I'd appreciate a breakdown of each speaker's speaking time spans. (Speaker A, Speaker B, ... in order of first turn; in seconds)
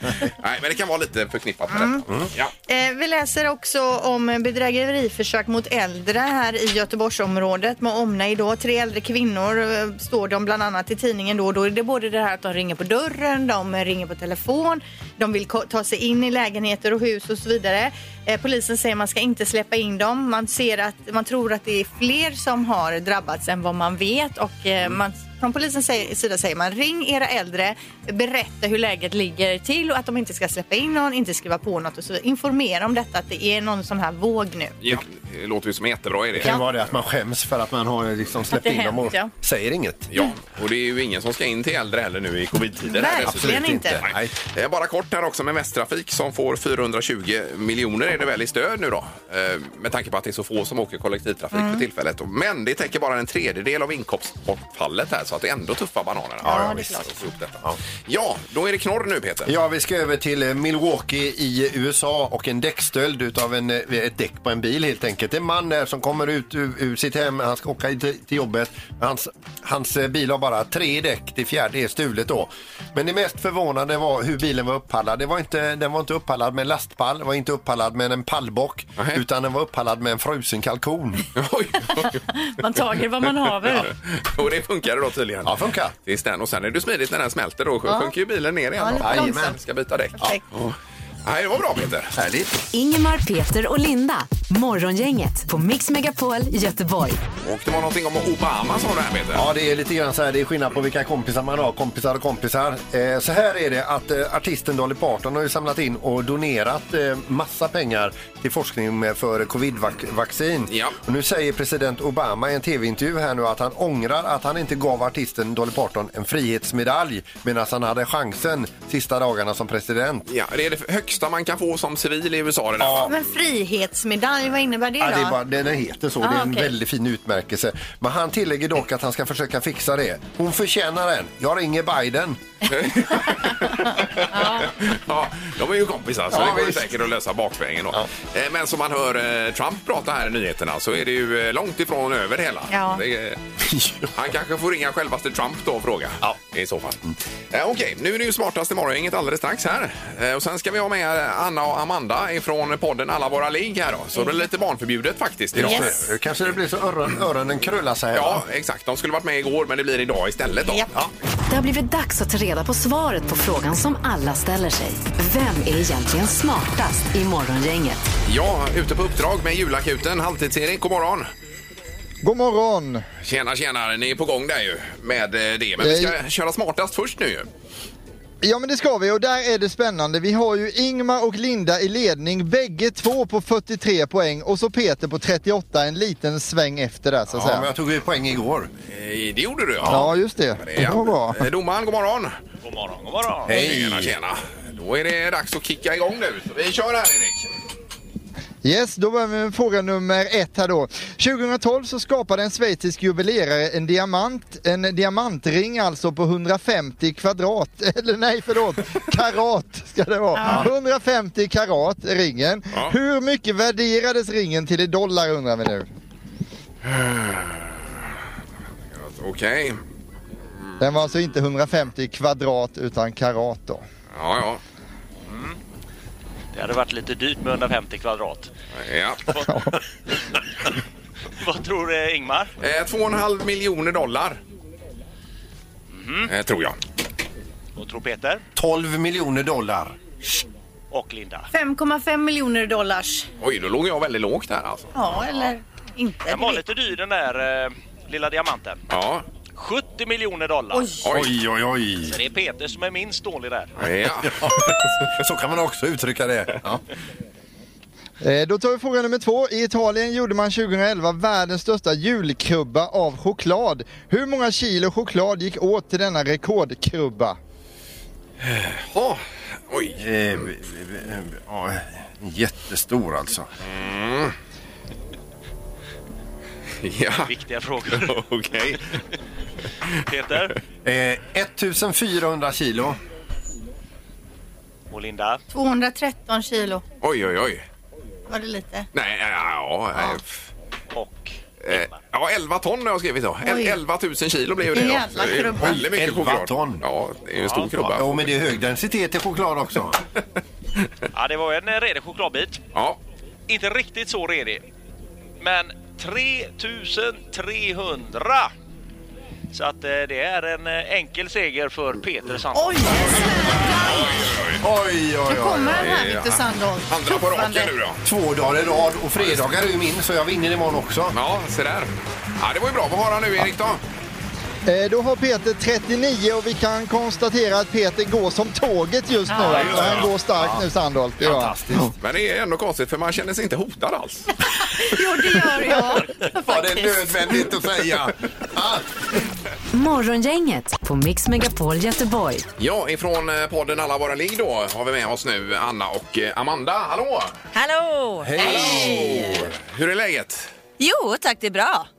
Speaker A: 0.4-2.5, 34.8-36.6, 40.1-59.5, 81.3-82.2, 83.7-92.1, 97.4-99.4, 110.7-111.0, 120.3-123.1, 132.7-143.4, 144.1-156.0, 158.1-160.9, 168.2-171.3, 173.2-177.5, 188.9-192.3, 193.5-197.5, 216.8-217.8, 219.0-219.8, 224.1-224.6, 228.8-229.3, 232.6-234.4, 236.3-236.8, 243.4-244.9, 248.9-249.2, 251.0-251.3, 253.8-254.9, 268.4-270.0, 273.6-274.3, 276.8-277.3, 277.9-279.0, 287.0-287.6, 288.9-290.4, 291.6-298.2, 302.7-303.0, 313.7-314.6, 315.7-318.0, 319.2-319.5, 321.1-323.8, 332.0-334.3, 342.6-347.3, 348.4-350.5
Speaker B: 1.7-2.0, 2.7-34.8, 38.5-39.3, 42.9-44.0, 51.5-51.8, 56.4-57.1, 82.3-83.9, 87.9-88.1, 88.8-89.6, 123.1-125.4, 126.2-126.7, 134.3-134.7, 142.7-143.0, 155.6-155.9, 160.6-160.9, 210.3-210.7, 241.5-243.3, 244.9-246.7, 250.7-251.0, 285.5-286.8, 288.3-288.9, 293.4-293.8, 294.7-295.8, 312.5-314.2, 315.3-317.7, 329.3-329.8, 334.6-337.4
Speaker C: 36.4-40.1, 43.0-44.3, 56.4-57.0, 59.5-81.3, 85.4-85.9, 89.0-89.6, 92.1-92.6, 99.3-120.3, 122.8-123.1, 125.0-132.4, 136.3-136.9, 143.7-144.1, 155.5-158.4, 187.3-188.7, 193.5-194.2, 238.5-239.9, 251.1-252.2, 254.0-256.8, 270.0-273.5, 280.8-283.0, 295.6-296.8, 297.7-300.0, 314.6-315.9, 318.0-321.1, 329.3-330.6, 331.2-331.9, 336.4-338.9, 348.2-349.4
Speaker D: 92.7-97.2, 161.5-168.1, 339.7-342.5
Speaker E: 172.2-173.0, 175.8-176.1, 178.4-187.7, 189.8-191.5, 198.6-215.9, 220.8-223.8, 258.2-267.4, 324.6-331.8
Speaker F: 192.6-193.6, 225.3-225.6, 226.5-228.5, 231.4-232.5, 235.9-236.3, 237.8-238.4, 240.9-241.5, 246.3-248.8, 249.5-251.0, 252.0-253.8, 277.3-278.2, 280.1-280.5, 284.9-285.4, 290.9-291.9, 297.4-297.7, 301.1-302.6, 303.5-304.6, 305.4-308.5, 309.5-313.1
Speaker G: 347.5-348.7, 350.8-351.9